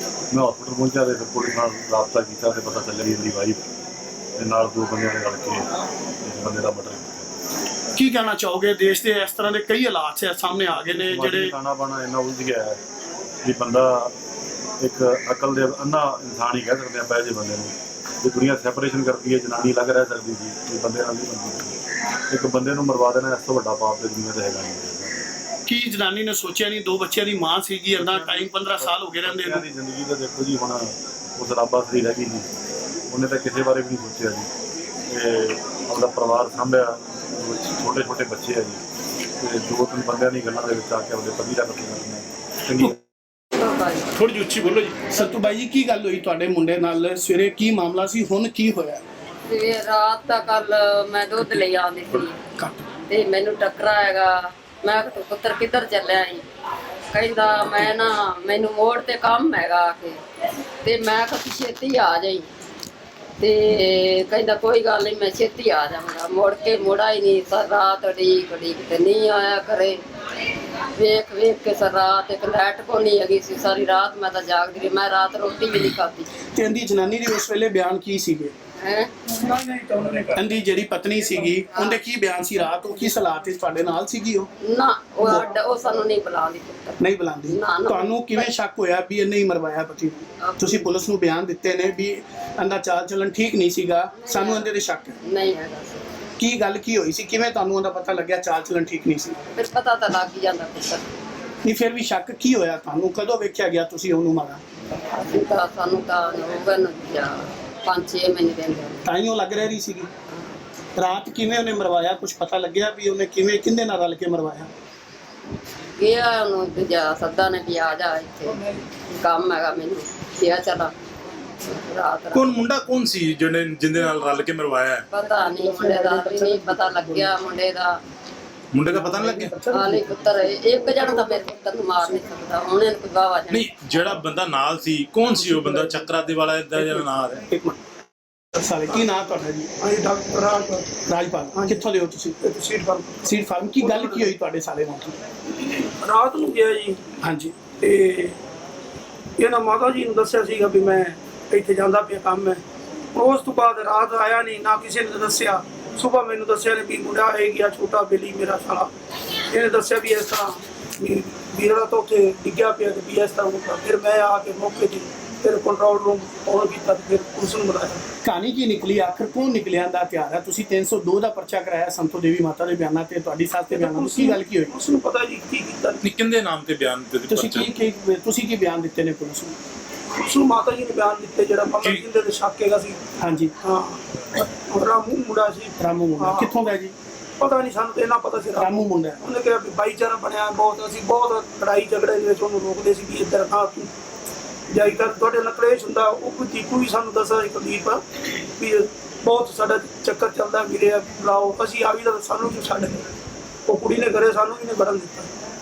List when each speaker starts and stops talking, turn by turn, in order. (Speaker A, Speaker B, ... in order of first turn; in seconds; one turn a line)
Speaker A: 0.3-3.6
Speaker A: 4.4-5.7
Speaker A: 6.2-7.3
Speaker B: 8.0-11.5
Speaker A: 10.7-12.8
Speaker A: 13.4-14.1
Speaker A: 14.8-21.7
Speaker A: 22.3-25.1
Speaker B: 25.6-29.6
Speaker A: 27.9-32.5
Speaker A: 33.1-34.5
Speaker A: 35.1-38.8
Speaker A: 39.4-42.9
Speaker C: 43.6-44.1
Speaker B: 44.1-49.0
Speaker C: 49.5-52.3
Speaker B: 52.6-52.9
Speaker C: 53.1-54.3
Speaker C: 54.8-56.4
Speaker C: 57.1-60.2
Speaker C: 60.8-62.4
Speaker C: 63.4-70.0
Speaker C: 71.0-76.3
Speaker B: 76.5-78.5
Speaker C: 78.8-79.1
Speaker D: 79.3-80.4
Speaker B: 80.3-84.5
Speaker C: 81.6-81.9
Speaker C: 84.7-87.0
Speaker B: 87.0-95.2
Speaker C: 87.5-88.5
Speaker C: 90.4-90.8
Speaker C: 94.2-94.7
Speaker C: 95.3-96.0
Speaker B: 96.4-99.4
Speaker C: 99.5-101.0
Speaker B: 101.6-104.6
Speaker C: 105.1-109.0
Speaker B: 109.0-110.1
Speaker B: 111.0-114.7
Speaker C: 116.0-118.5
Speaker D: 118.5-118.8
Speaker C: 119.2-120.9
Speaker C: 121.7-122.5
Speaker E: 122.3-125.0
Speaker C: 125.1-127.9
Speaker D: 125.2-127.2
Speaker E: 128.7-129.6
Speaker B: 128.9-129.7
Speaker D: 128.9-132.3
Speaker C: 129.7-133.6
Speaker E: 133.5-137.4
Speaker D: 135.4-137.8
Speaker B: 138.6-139.7
Speaker D: 139.8-140.9
Speaker B: 141.1-142.3
Speaker D: 141.5-144.3
Speaker B: 143.2-145.2
Speaker D: 145.6-147.0
Speaker B: 147.2-147.6
Speaker D: 147.8-148.3
Speaker D: 149.4-152.6
Speaker D: 153.1-158.9
Speaker D: 159.5-168.0
Speaker B: 168.2-174.7
Speaker D: 173.7-176.0
Speaker E: 176.0-177.7
Speaker B: 177.3-179.6
Speaker D: 180.2-183.0
Speaker B: 183.2-183.5
Speaker D: 183.6-186.6
Speaker B: 185.8-186.9
Speaker D: 187.4-193.9
Speaker B: 188.6-189.2
Speaker D: 194.7-198.0
Speaker D: 198.6-203.1
Speaker D: 203.7-205.3